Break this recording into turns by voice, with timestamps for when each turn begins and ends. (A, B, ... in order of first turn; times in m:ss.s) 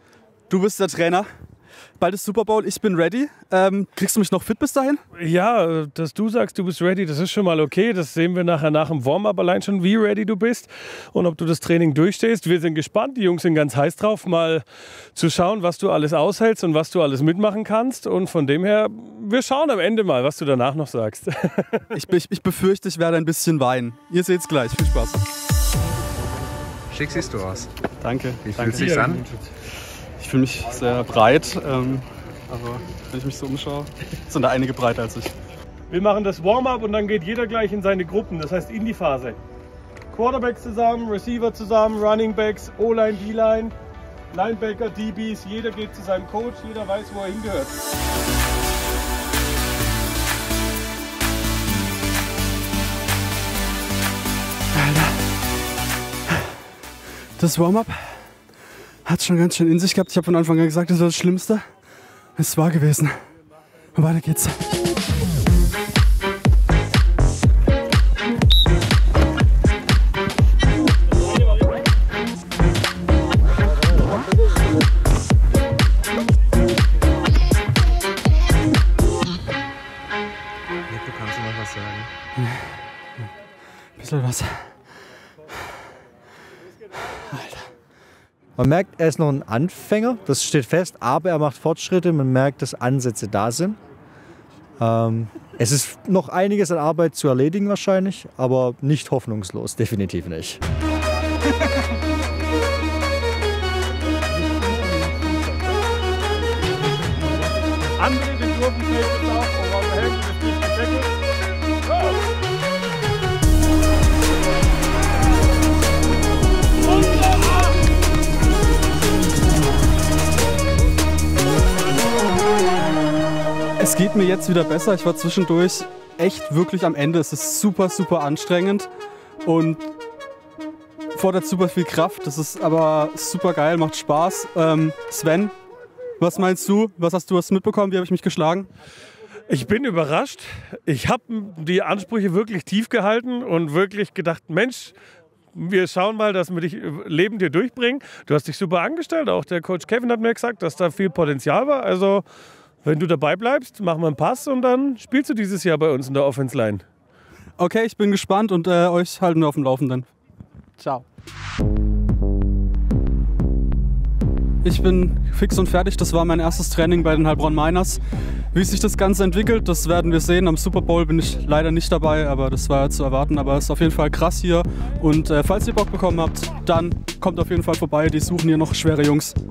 0:00.5-0:01.3 A
0:02.0-0:05.0 A
0:05.2-0:21.9 B
0:21.9-0:25.2 A
0:26.9-0:27.7 C
0:28.0-0:29.1 A
0:28.4-0:29.3 C
0:28.7-0:29.3 B
0:30.2-0:35.3 A
0:35.9-0:39.4 B
0:40.1-0:43.7 B
0:44.3-0:47.7 B
0:54.8-0:55.2 A
0:57.4-0:58.2 A
0:59.0-1:01.7 A
1:02.4-1:03.2 A
1:04.0-1:04.7 A
1:20.9-1:22.1 C
1:22.4-1:22.6 A
1:24.0-1:24.6 A
1:27.0-1:27.7 A
1:28.6-1:33.8 D
1:34.8-1:40.6 D
1:48.0-1:51.1 B
2:03.8-2:08.9 A
2:09.4-2:09.9 A
2:11.2-2:15.5 A
2:16.2-2:18.7 A
2:19.5-2:25.0 B
2:25.5-2:32.2 B
2:32.8-2:36.8 B
2:37.6-2:40.1 A
2:44.6-2:48.0 A
2:48.5-2:59.4 A